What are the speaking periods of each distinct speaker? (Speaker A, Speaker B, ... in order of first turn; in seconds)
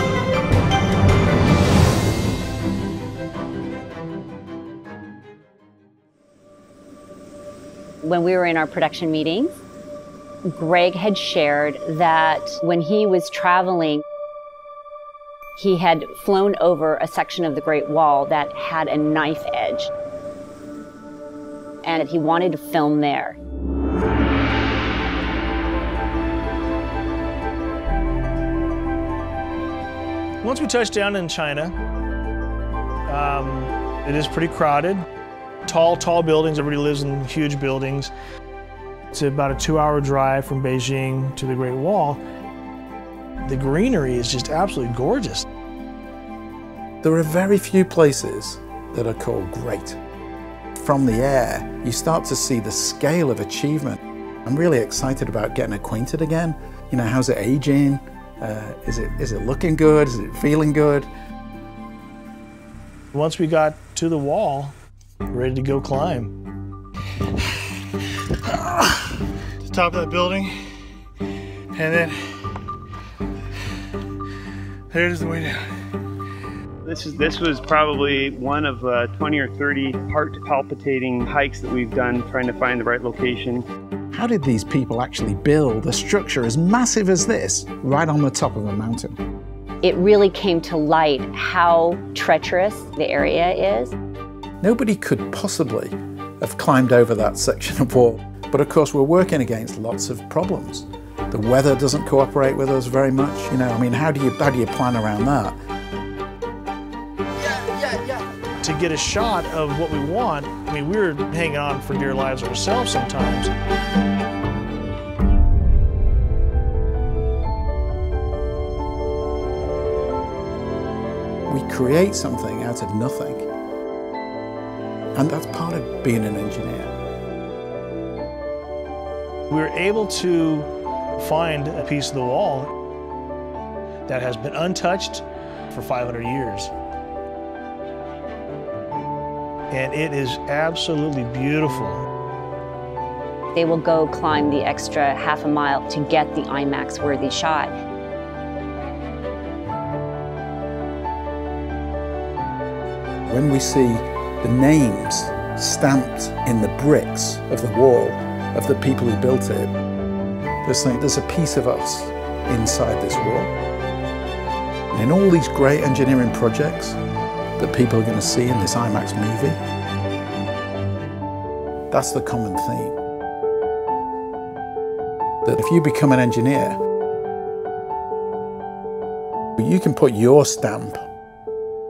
Speaker A: 8.0-9.5, 10.5-14.0, 15.6-19.9, 21.8-23.4, 89.8-93.9, 143.5-147.7
Speaker B: 30.4-31.8, 33.1-35.0, 35.6-38.1, 39.1-42.2, 43.4-45.4, 63.1-64.8, 65.3-66.3, 68.3-70.6, 71.7-72.6, 74.9-75.7, 107.5-113.5, 129.5-132.7, 134.1-136.7, 139.7-142.0
Speaker C: 47.0-50.0, 50.8-61.1, 84.1-89.2, 94.6-105.6, 121.5-123.5, 125.1-126.9, 153.3-159.7, 160.6-163.5, 164.9-167.0, 167.6-169.6, 171.9-172.9, 175.4-176.8, 179.6-181.0
Speaker D: 76.8-83.6